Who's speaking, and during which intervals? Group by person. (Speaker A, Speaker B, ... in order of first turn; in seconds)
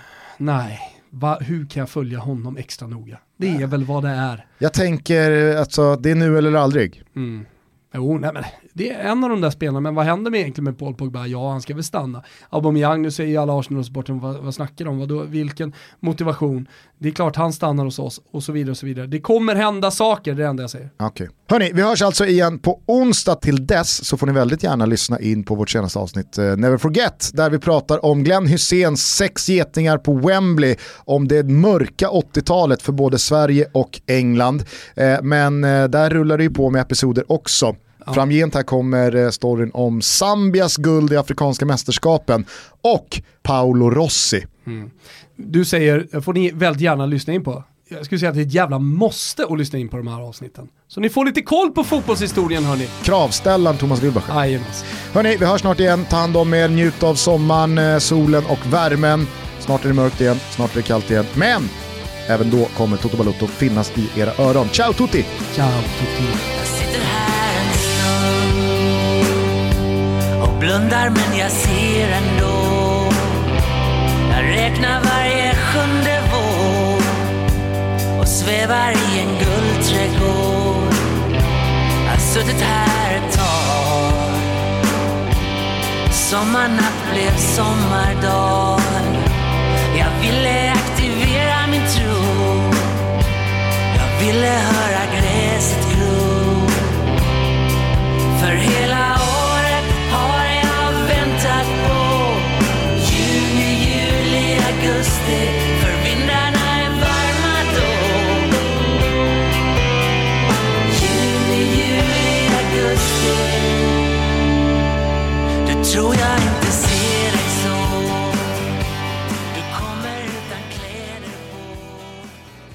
Speaker A: 0.4-4.4, 7.2-20.9, 44.7-52.9, 54.3-54.9, 65.5-66.4
Speaker B: 4.6-7.0, 21.0-44.5, 53.0-54.4, 55.1-61.7, 62.3-65.3
Speaker C: 66.5-68.9, 70.4-73.4, 74.3-77.2, 78.2-81.0, 82.1-84.5, 86.1-89.2, 89.9-92.9, 93.9-97.0, 98.3-108.7, 110.9-114.0, 115.6-118.5, 119.5-122.3